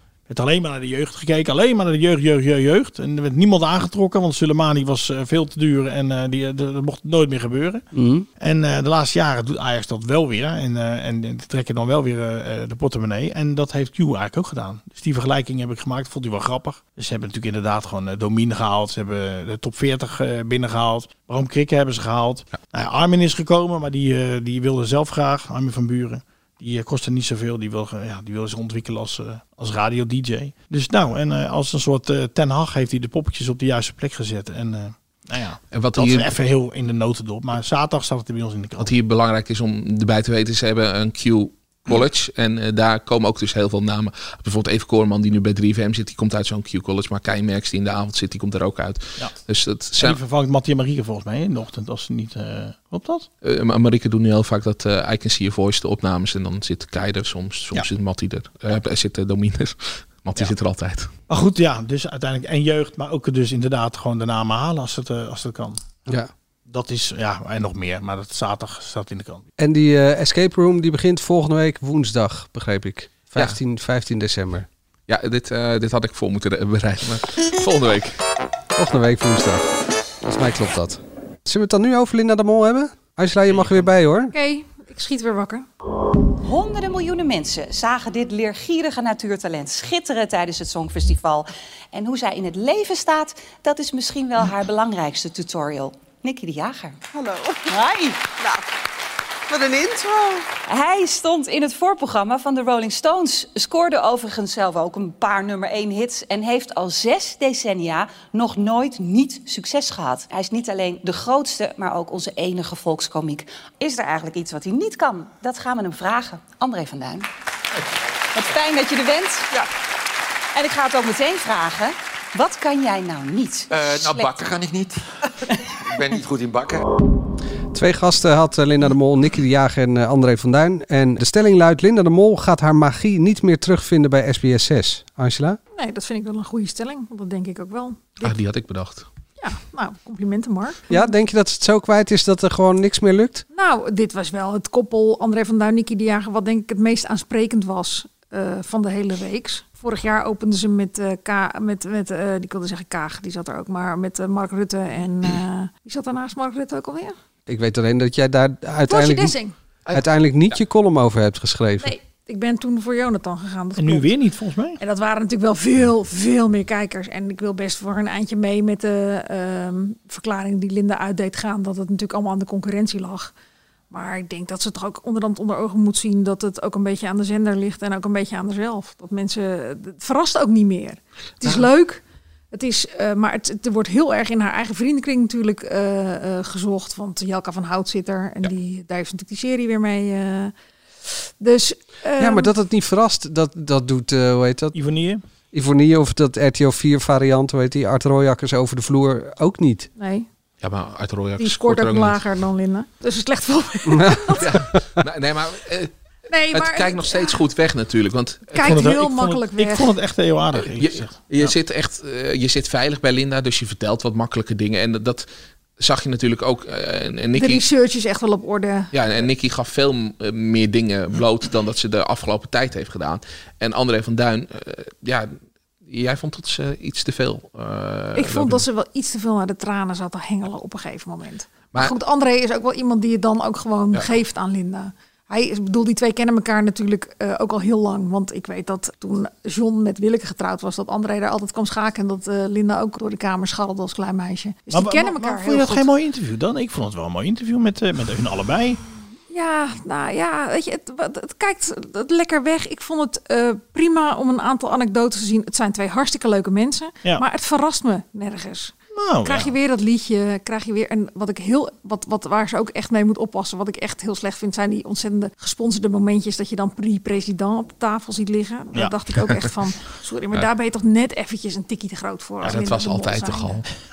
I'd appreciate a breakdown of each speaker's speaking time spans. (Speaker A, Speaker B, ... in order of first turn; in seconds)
Speaker A: 0.3-7.8, 8.4-38.9, 50.0-53.3, 61.3-65.9, 66.7-69.4, 163.8-164.8, 194.7-195.2, 208.5-211.5, 244.7-248.8, 258.9-259.5
Speaker B: 7.9-8.3, 69.6-74.7, 78.7-79.7, 80.2-84.3, 127.7-135.6, 140.9-143.4, 157.5-159.4, 159.9-161.9, 192.2-194.8, 195.5-199.9, 203.9-204.8
Speaker C: 35.7-36.3, 38.8-50.2, 53.4-61.1, 75.1-78.2, 83.5-83.9, 138.2-139.1, 159.8-160.6, 200.6-202.2, 204.4-205.9, 206.5-208.5, 210.6-215.3, 215.8-217.7, 218.9-228.6, 272.4-273.6
Speaker D: 84.3-85.7, 135.7-138.3, 139.4-141.1, 143.5-157.1, 158.9-159.5, 161.8-164.1, 164.8-173.3, 173.9-190.5, 191.4-192.5, 200.0-200.2, 201.4-204.6, 206.3-207.3, 208.5-209.9, 217.3-218.9, 228.1-245.9, 249.3-273.6
Speaker E: 86.4-97.0, 97.7-98.2, 100.7-117.3, 118.3-119.7, 120.5-124.5
Speaker F: 97.1-98.6, 99.5-100.5
Speaker G: 123.7-124.9, 126.0-126.8